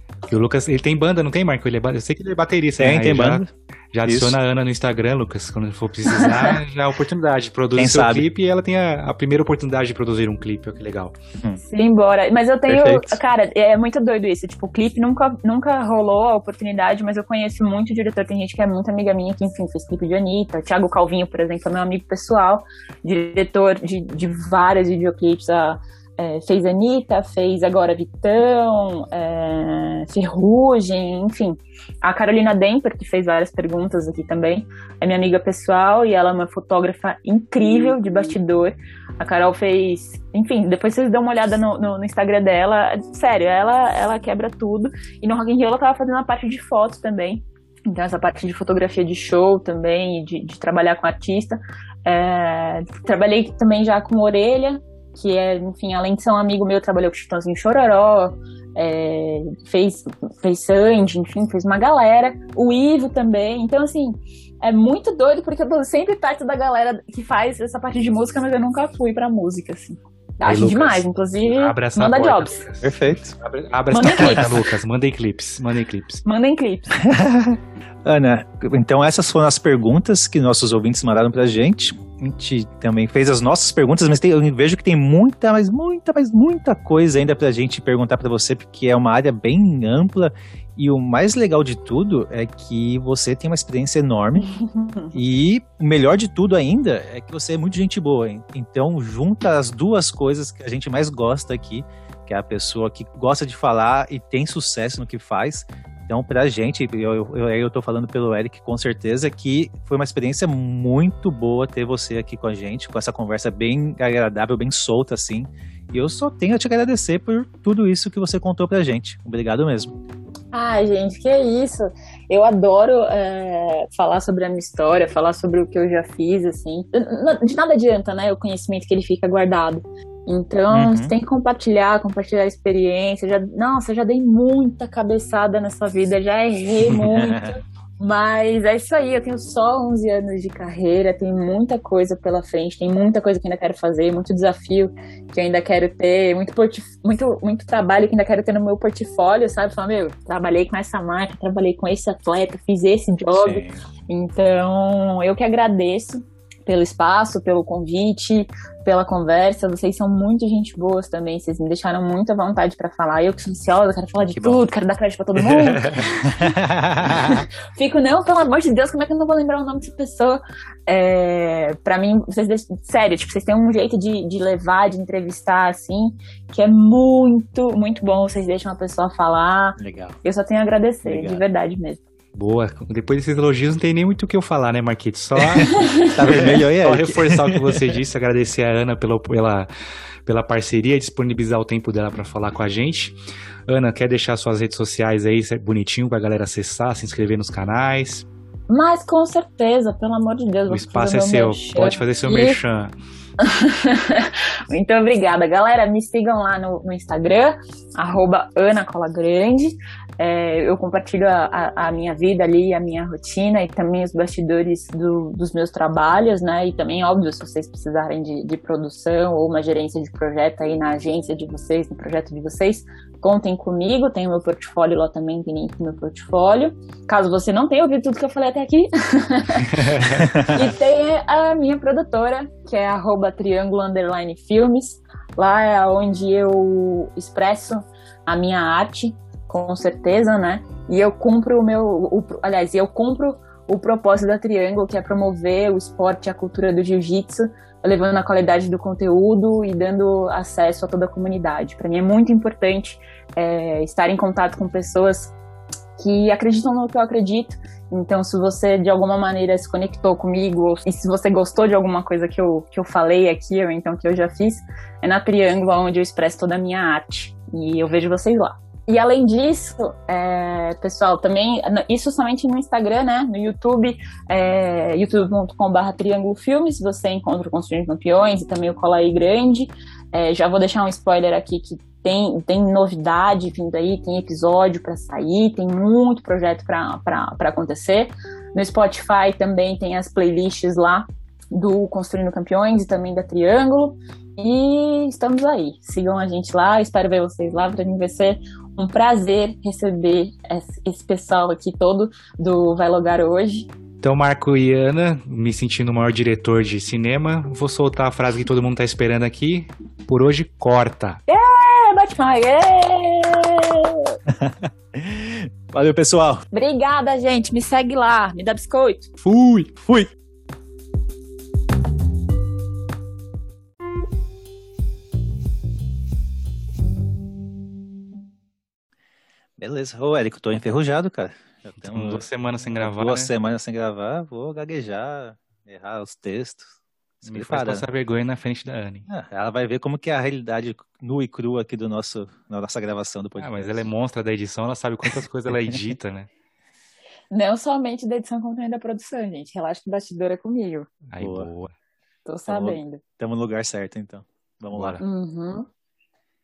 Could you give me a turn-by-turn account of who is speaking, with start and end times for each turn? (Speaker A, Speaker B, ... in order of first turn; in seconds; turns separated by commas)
Speaker A: 0.3-11.2, Speaker B: 2.8-3.5, Speaker B: 4.0-4.4, Speaker C: 6.1-6.5, Speaker B: 7.8-8.3, Speaker C: 11.6-72.7, Speaker B: 12.7-13.2, Speaker A: 70.5-76.2, Speaker B: 72.8-73.3, Speaker C: 73.9-74.6, Speaker C: 76.2-77.0, Speaker B: 77.0-94.5, Speaker C: 94.4-95.2, Speaker B: 95.1-120.0, Speaker C: 120.5-166.6, Speaker B: 130.7-131.1, Speaker B: 136.9-137.6, Speaker B: 153.3-153.8, Speaker B: 164.4-164.6, Speaker A: 165.5-166.1, Speaker B: 166.3-167.4, Speaker C: 167.2-182.0, Speaker B: 179.8-180.2, Speaker B: 181.1-181.4, Speaker A: 182.3-189.7, Speaker B: 185.4-188.0, Speaker A: 190.3-193.2, Speaker A: 193.7-198.3, Speaker C: 198.7-202.6, Speaker A: 200.7-202.9, Speaker C: 203.4-255.3, Speaker A: 229.8-230.2, Speaker C: 256.0-303.7, Speaker A: 304.0-311.2, Speaker C: 311.3-314.2, Speaker B: 314.3-316.4, Speaker C: 316.5-319.1, Speaker B: 319.2-320.1, Speaker B: 329.6-337.8, Speaker A: 331.8-333.3, Speaker A: 337.3-339.1, Speaker B: 339.1-343.9, Speaker A: 343.4-346.3, Speaker C: 347.3-350.9, Speaker A: 351.1-351.7, Speaker B: 351.2-351.5, Speaker C: 352.2-353.0, Speaker B: 352.5-355.0, Speaker A: 354.7-355.0, Speaker C: 355.0-355.7